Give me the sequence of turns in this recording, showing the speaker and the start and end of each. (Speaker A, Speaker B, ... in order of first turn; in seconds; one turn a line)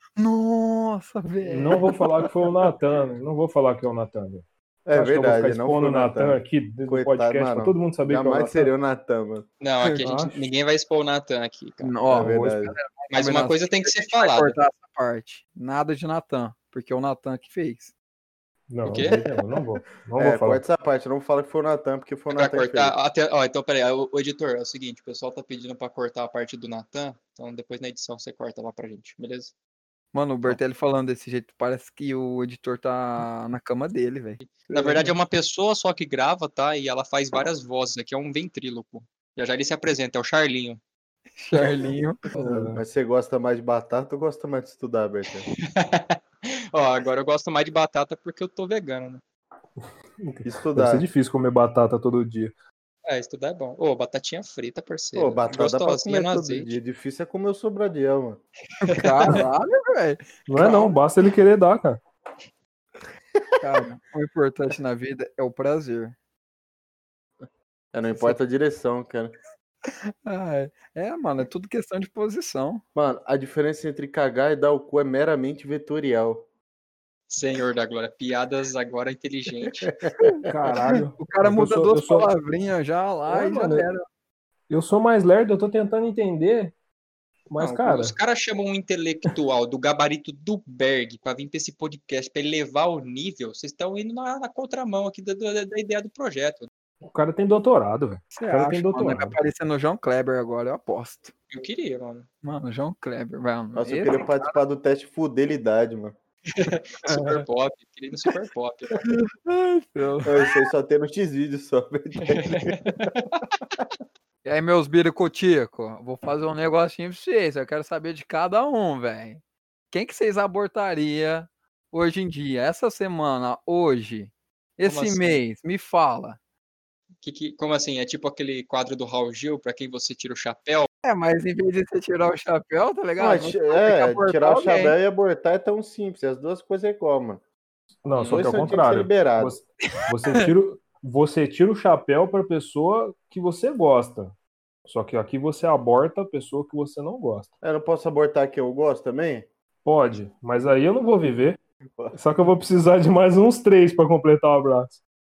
Speaker A: 0.2-2.3
Speaker B: 1.4-8.7
Speaker C: 4.8-9.5
Speaker D: 9.6-11.9
Speaker B: 10.0-10.4
Speaker A: 11.8-17.9
Speaker C: 12.1-12.8
Speaker D: 13.1-14.6
Speaker B: 18.7-20.6
Speaker D: 18.8-19.2
Speaker C: 20.2-22.9
Speaker D: 22.3-29.5
Speaker A: 30.1-34.4
Speaker D: 34.4-40.8
Speaker A: 41.4-42.3
Speaker B: 42.3-42.8
Speaker C: 42.4-45.5
Speaker D: 45.6-49.2
Speaker B: 50.2-52.5
Speaker C: 50.4-51.1
Speaker D: 53.0-56.7
Speaker C: 55.1-58.4
Speaker A: 58.8-60.9
Speaker D: 58.9-59.4
Speaker B: 60.5-62.0
Speaker A: 63.6-66.1
Speaker C: 67.9-69.3
Speaker A: 70.2-72.8
Speaker C: 72.9-76.5
Speaker D: 77.3-79.9
Speaker C: 80.1-80.3
Speaker B: 80.4-82.3
Speaker A: 81.2-84.0
Speaker B: 83.3-83.9
Speaker B: 84.7-86.7
Speaker B: 87.5-88.1
Speaker D: 87.6-96.7
Speaker B: 97.0-99.4
Speaker A: 98.3-101.3
Speaker D: 101.5-102.3
Speaker A: 102.4-104.6
Speaker C: 103.7-106.1
Speaker D: 106.5-109.0
Speaker A: 107.0-107.4
Speaker A: 109.0-110.4
Speaker C: 110.2-113.1
Speaker D: 112.3-113.2
Speaker A: 114.4-126.4
Speaker D: 124.8-125.4
Speaker D: 127.2-130.9
Speaker A: 131.0-134.9
Speaker C: 133.2-137.4
Speaker B: 138.0-144.3
Speaker D: 138.1-138.4
Speaker C: 138.2-139.6
Speaker A: 140.0-140.4
Speaker B: 144.8-147.5
Speaker C: 147.6-149.5
Speaker B: 149.8-151.6
Speaker B: 152.1-155.0